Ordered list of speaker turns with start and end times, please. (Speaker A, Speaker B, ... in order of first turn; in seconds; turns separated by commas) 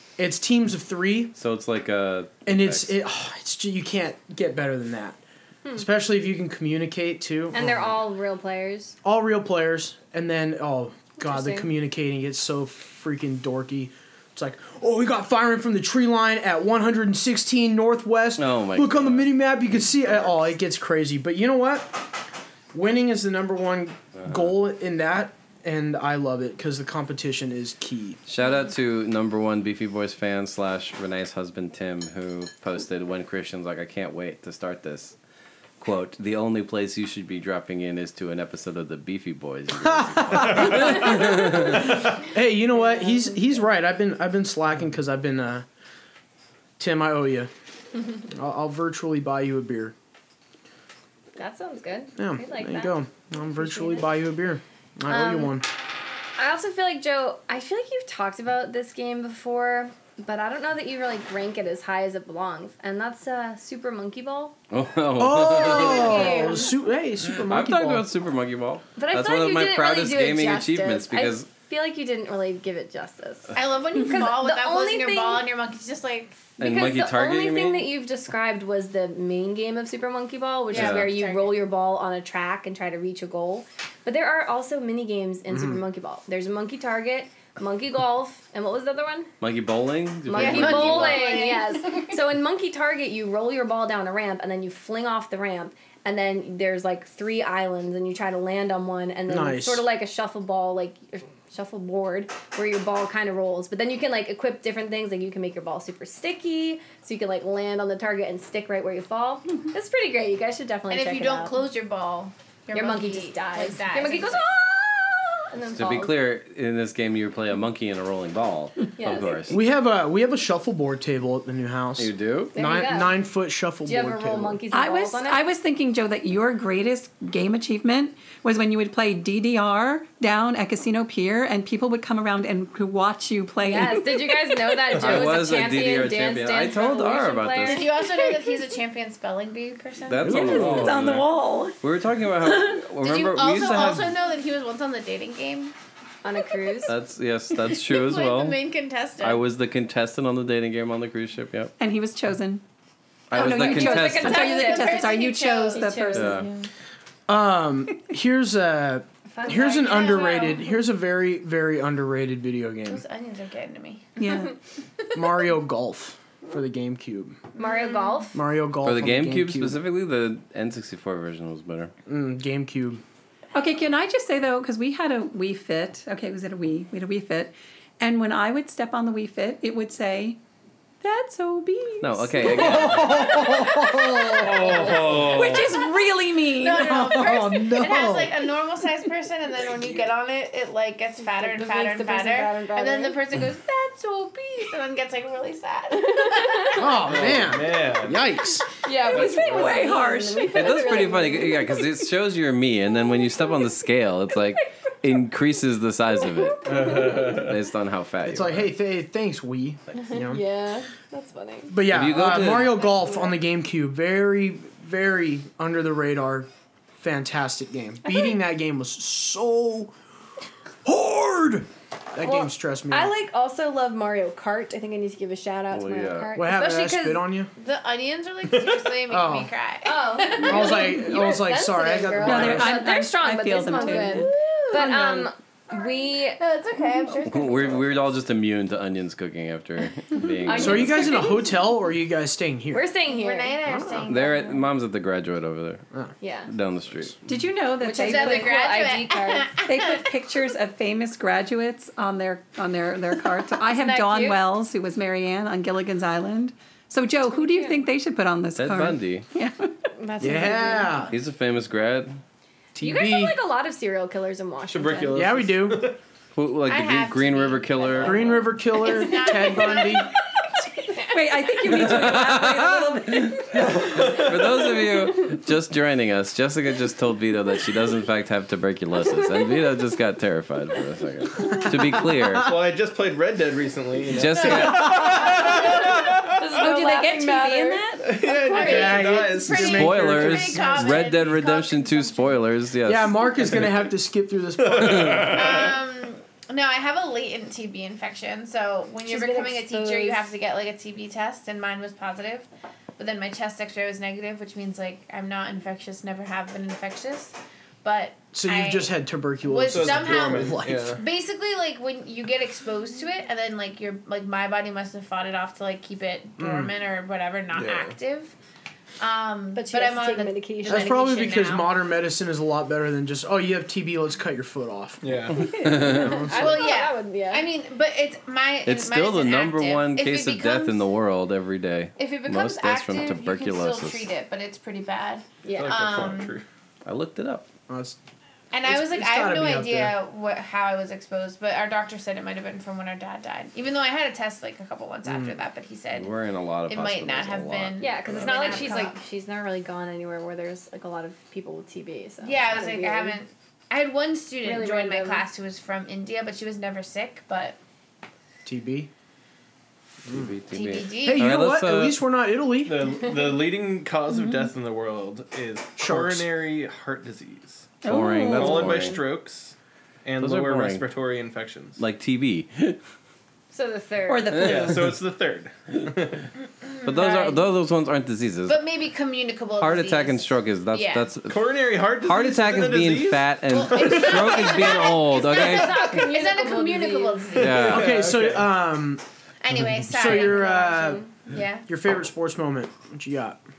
Speaker A: 0.2-1.3, Speaker B: 1.4-2.9, Speaker A: 2.5-5.2, Speaker A: 5.7-7.9, Speaker C: 7.5-8.9, Speaker A: 9.0-22.1, Speaker C: 11.2-11.7, Speaker B: 18.4-19.3, Speaker B: 19.9-20.5, Speaker A: 22.7-28.2, Speaker B: 28.3-35.1, Speaker B: 35.8-41.9, Speaker A: 39.8-45.6, Speaker C: 42.7-43.5, Speaker A: 46.8-47.5, Speaker A: 48.3-49.9, Speaker C: 51.4-53.0, Speaker A: 52.2-55.7, Speaker C: 53.5-54.1, Speaker C: 55.1-55.6, Speaker C: 56.4-64.5, Speaker B: 64.7-66.5, Speaker A: 65.2-68.0, Speaker C: 65.5-66.7, Speaker B: 67.2-71.5, Speaker C: 69.0-75.5, Speaker D: 73.5-76.4, Speaker B: 76.6-77.9, Speaker C: 76.6-89.3, Speaker B: 80.7-81.1, Speaker D: 80.7-81.6, Speaker A: 85.5-85.8, Speaker B: 89.4-91.4, Speaker C: 90.3-111.6, Speaker D: 90.3-92.1, Speaker A: 99.3-99.8, Speaker D: 110.9-114.5, Speaker C: 112.7-116.1, Speaker B: 115.8-119.6, Speaker C: 119.0-119.5, Speaker A: 119.5-124.6, Speaker B: 122.0-122.5, Speaker C: 122.5-123.2, Speaker C: 123.8-125.4, Speaker E: 124.7-134.4, Speaker C: 133.6-138.3, Speaker B: 134.9-137.8, Speaker D: 137.6-140.4, Speaker B: 140.1-144.1, Speaker A: 140.2-141.0, Speaker E: 140.3-141.8, Speaker D: 143.0-145.7, Speaker C: 146.2-146.9, Speaker B: 146.8-148.6, Speaker D: 147.6-149.4, Speaker B: 149.2-151.7, Speaker E: 151.8-152.6, Speaker B: 153.3-154.5, Speaker E: 153.3-156.7, Speaker C: 153.3-155.1, Speaker D: 154.0-156.0, Speaker C: 155.7-156.5, Speaker B: 156.1-156.5, Speaker A: 157.3-163.0, Speaker C: 159.3-160.6, Speaker D: 160.2-160.5, Speaker D: 162.8-164.2, Speaker E: 164.2-164.5, Speaker A: 165.1-167.4, Speaker C: 167.6-168.4, Speaker D: 167.6-168.2, Speaker A: 168.3-169.8, Speaker B: 168.8-171.9, Speaker A: 172.1-173.0, Speaker E: 173.5-180.4, Speaker E: 181.0-183.0, Speaker B: 182.0-183.4, Speaker A: 182.4-185.1, Speaker C: 183.0-185.1, Speaker F: 184.4-185.7, Speaker E: 185.0-187.4, Speaker D: 186.4-196.9, Speaker A: 186.7-188.5, Speaker C: 191.2-193.2, Speaker C: 195.9-197.0, Speaker A: 196.7-198.7, Speaker F: 197.0-198.2, Speaker C: 198.8-201.9, Speaker E: 198.8-201.1, Speaker F: 199.1-199.8, Speaker B: 200.5-208.7, Speaker C: 206.2-207.4, Speaker F: 206.6-207.6, Speaker A: 208.2-210.4, Speaker C: 210.0-211.7, Speaker A: 211.7-219.9, Speaker B: 211.8-212.9, Speaker C: 212.7-213.3, Speaker A: 220.8-223.1, Speaker C: 222.2-227.2, Speaker B: 225.7-226.4, Speaker A: 226.3-227.5, Speaker D: 227.6-231.0, Speaker A: 229.1-229.5, Speaker C: 229.8-236.4, Speaker A: 230.4-232.8, Speaker E: 232.2-234.3, Speaker D: 233.7-238.1, Speaker A: 234.8-235.2, Speaker B: 237.2-241.2, Speaker C: 240.4-241.4, Speaker A: 240.5-242.9, Speaker C: 242.7-243.6, Speaker D: 243.1-244.5, Speaker A: 243.6-244.2, Speaker B: 244.1-245.8, Speaker C: 246.2-246.5, Speaker B: 246.5-247.2, Speaker E: 247.2-248.6, Speaker C: 247.8-249.5, Speaker D: 247.8-250.0, Speaker E: 249.6-259.7, Speaker C: 253.6-254.4, Speaker C: 257.3-257.8, Speaker B: 258.6-259.2, Speaker C: 260.0-261.1, Speaker A: 260.2-261.1, Speaker B: 261.1-262.2, Speaker A: 262.7-263.3, Speaker C: 262.8-265.4, Speaker F: 264.7-266.0, Speaker A: 265.1-266.0, Speaker B: 266.3-268.4, Speaker D: 266.6-270.0, Speaker A: 268.0-270.1, Speaker E: 271.0-273.6, Speaker B: 271.6-282.5, Speaker A: 273.6-274.1, Speaker F: 273.9-274.5, Speaker F: 282.3-286.4, Speaker B: 284.1-285.1, Speaker C: 284.9-285.8, Speaker C: 286.3-289.1, Speaker E: 286.5-288.1, Speaker F: 288.0-289.9, Speaker D: 288.5-292.4, Speaker A: 288.6-291.1, Speaker B: 289.6-293.2, Speaker A: 292.8-295.5, Speaker F: 294.6-295.4, Speaker B: 294.9-295.3, Speaker D: 295.3-318.3, Speaker C: 299.1-300.3, Speaker A: 308.3-311.0, Speaker F: 309.6-311.0, Speaker A: 316.4-316.7, Speaker F: 317.5-317.9, Speaker D: 319.0-321.7, Speaker C: 319.5-321.0, Speaker A: 320.7-326.7, Speaker F: 325.0-325.7, Speaker B: 325.5-326.2, Speaker C: 325.6-327.5, Speaker D: 326.2-330.9, Speaker B: 328.6-334.1, Speaker D: 332.0-336.4, Speaker C: 335.4-335.8, Speaker F: 335.5-336.4, Speaker B: 336.8-337.4, Speaker A: 337.7-338.0, Speaker D: 338.5-346.1, Speaker A: 338.6-340.0, Speaker A: 345.0-345.3, Speaker B: 345.9-348.8, Speaker D: 346.6-348.9, Speaker C: 347.8-353.2, Speaker D: 352.2-357.6, Speaker C: 354.4-355.2, Speaker A: 358.4-358.9, Speaker B: 360.0-362.0, Speaker D: 360.5-361.4, Speaker A: 361.0-362.8, Speaker F: 362.6-371.8, Speaker E: 364.1-364.5, Speaker A: 365.8-366.2, Speaker E: 367.8-368.9, Speaker B: 367.8-369.0, Speaker B: 370.2-370.8, Speaker B: 371.8-372.8, Speaker C: 373.5-374.5, Speaker E: 374.1-374.9, Speaker F: 374.3-376.3, Speaker D: 376.6-377.4, Speaker B: 376.8-378.6, Speaker D: 378.4-381.1, Speaker B: 379.6-385.9, Speaker F: 381.2-384.6, Speaker D: 383.5-387.9, Speaker C: 385.2-387.5, Speaker B: 387.4-387.9, Speaker F: 387.4-388.5, Speaker A: 387.4-389.0, Speaker D: 389.4-391.6, Speaker A: 389.8-391.0, Speaker C: 390.0-391.1, Speaker A: 391.7-393.4